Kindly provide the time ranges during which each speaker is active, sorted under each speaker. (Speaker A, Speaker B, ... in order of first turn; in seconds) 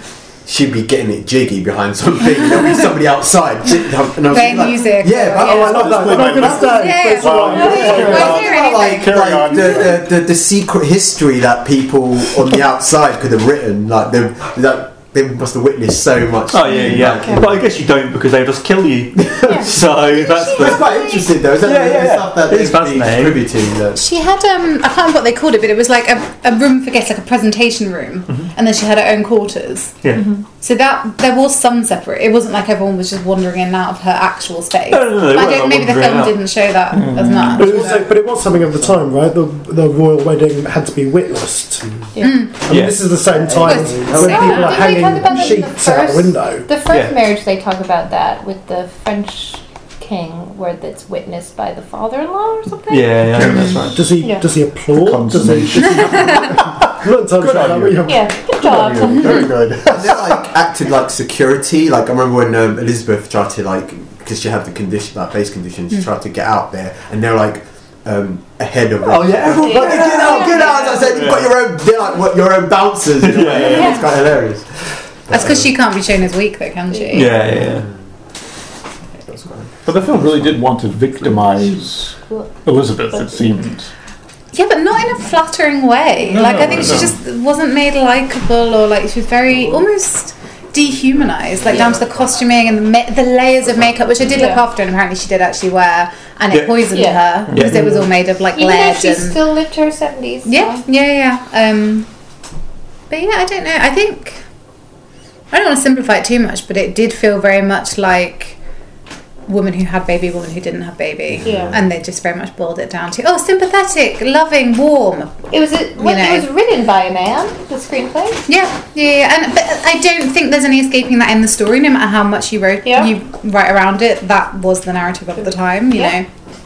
Speaker A: 0.5-6.4, 7.7-17.7, 19.2-24.0, 44.0-44.5, 59.8-75.7, 77.4-77.9, 79.3-79.7, 111.3-111.8
Speaker B: 4.3-9.3, 24.0-30.0, 30.6-38.1, 42.2-42.6, 43.6-44.9, 53.4-53.8, 59.1-59.4, 75.3-77.5, 84.5-99.4, 100.5-102.1, 103.1-104.4, 105.5-108.6, 109.5-116.5, 118.5-126.3
Speaker C: 5.4-8.4, 37.5-41.9, 42.5-46.7, 53.9-58.4, 97.7-98.0
Speaker D: 5.7-10.1, 36.9-37.8, 53.3-54.0, 54.9-60.4, 79.8-83.9, 86.2-87.2
Speaker E: 16.5-21.0, 21.6-23.4, 34.9-36.4, 42.7-43.2, 46.9-47.2, 52.9-54.0, 69.0-71.5, 73.2-74.1, 77.1-77.9, 96.5-96.9, 97.5-97.8
Speaker F: 30.1-30.4, 42.2-42.4, 44.1-53.7, 54.2-54.5, 58.0-59.5, 69.6-70.9, 76.9-77.3, 94.3-94.6, 96.9-97.2, 98.5-100.8, 111.4-111.8, 115.5-118.5, 122.8-123.1, 125.9-126.2